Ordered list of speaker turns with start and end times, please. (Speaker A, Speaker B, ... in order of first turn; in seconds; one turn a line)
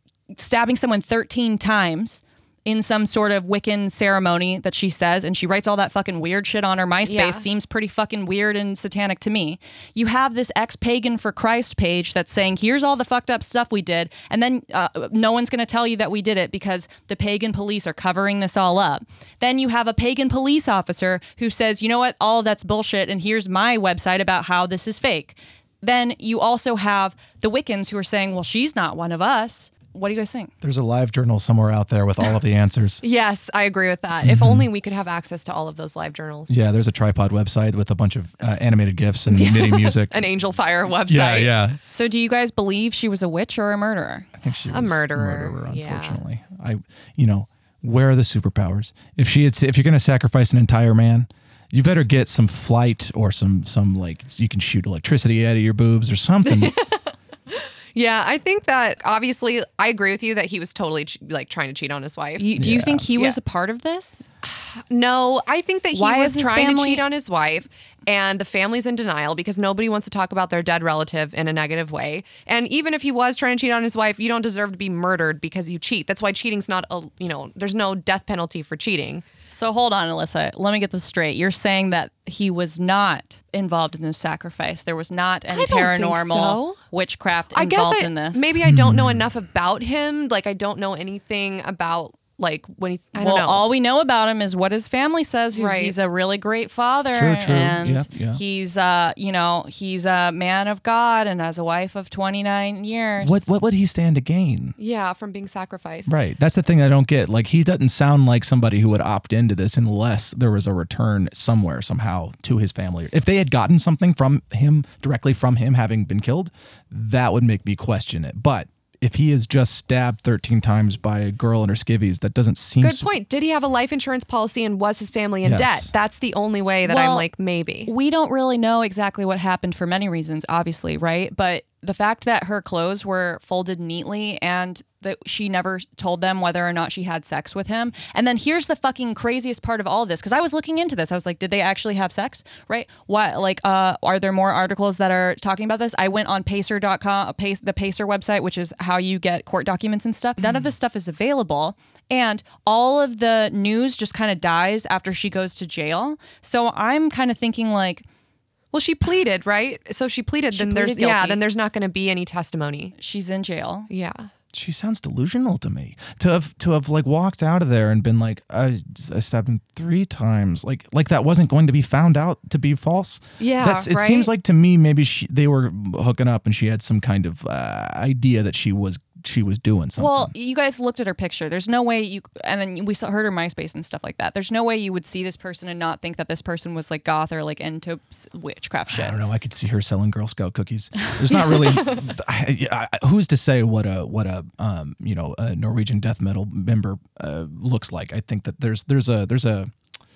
Speaker A: 0.3-30.5
Speaker B: 7.0-7.5
Speaker C: 30.6-33.0
Speaker B: 33.0-36.5
Speaker C: 34.2-34.7
Speaker C: 36.5-40.3
Speaker B: 39.3-41.5
Speaker C: 41.1-41.8
Speaker A: 41.8-44.3
Speaker C: 44.4-56.8
Speaker B: 44.7-46.2
Speaker B: 56.4-62.5
Speaker A: 62.4-64.3
Speaker C: 62.6-63.1
Speaker B: 64.4-79.2
Speaker A: 65.9-67.0
Speaker A: 79.5-88.6
Speaker B: 85.5-86.8
Speaker B: 87.5-93.7
Speaker C: 88.6-89.2
Speaker A: 93.2-103.4
Speaker B: 95.5-96.0
Speaker C: 97.1-98.4
Speaker C: 103.2-104.8
Speaker B: 104.8-106.2
Speaker C: 106.1-123.1
Speaker B: 122.8-127.9
Speaker C: 125.4-125.9
Speaker A: 126.8-127.3
Speaker A: 127.9-158.0
Speaker B: 158.7-162.9
Speaker A: 160.5-161.4
Speaker A: 163.0-163.9
Speaker B: 163.9-164.3
Speaker C: 164.5-180.3
Speaker B: 173.4-174.3
Speaker A: 180.0-189.2
Speaker C: 188.9-199.7
Speaker B: 191.5-191.9